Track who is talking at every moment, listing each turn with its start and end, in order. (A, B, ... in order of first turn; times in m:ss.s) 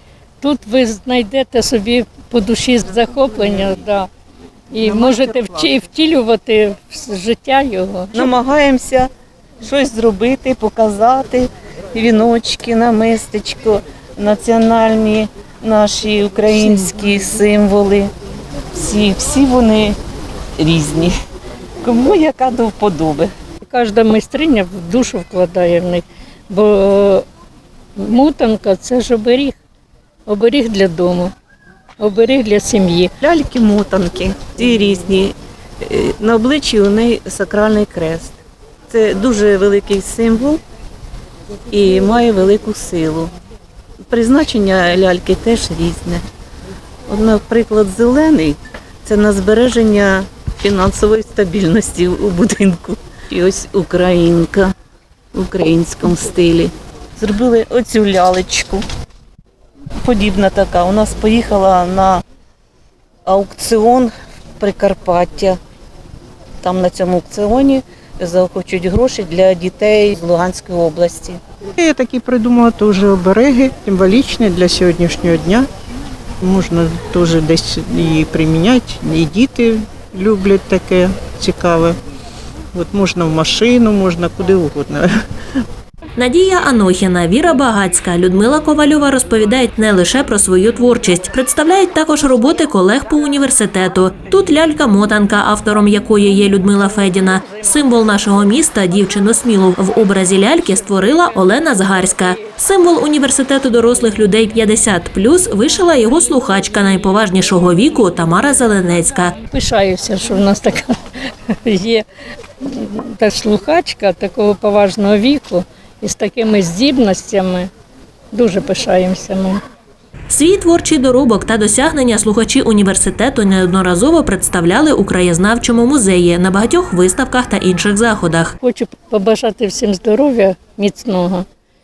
0:00.4-0:04.1 A
0:04.7-0:08.3 A
0:04.8-0:05.7 B
0:08.1-0:18.1 B
0:18.7-0:20.0 B
0:20.6-0:21.1 B
0:21.8-0:23.3 B
0:23.6-0:27.2 A
0:28.0-0:29.6 A
0:30.2-0:31.3 A
0:32.0-0:33.1 A
0:33.2-0:38.4 B
0:38.9-0:40.6 B
0:41.7-0:43.3 B
0:44.1-0:46.2 B
0:47.1-0:54.7 B
0:55.3-0:58.8 B
1:00.0-1:02.2 B
1:03.2-1:05.6 B
1:06.6-1:11.4 B
1:11.8-1:15.7 C
1:16.4-1:22.0 C
1:22.7-1:25.1 C
1:26.2-1:49.4 D
1:49.5-1:51.0 A
1:51.5-1:52.0 A
1:52.6-1:57.7 A
1:58.3-1:59.6 A
2:00.3-2:08.5 D
2:08.6-2:11.5 A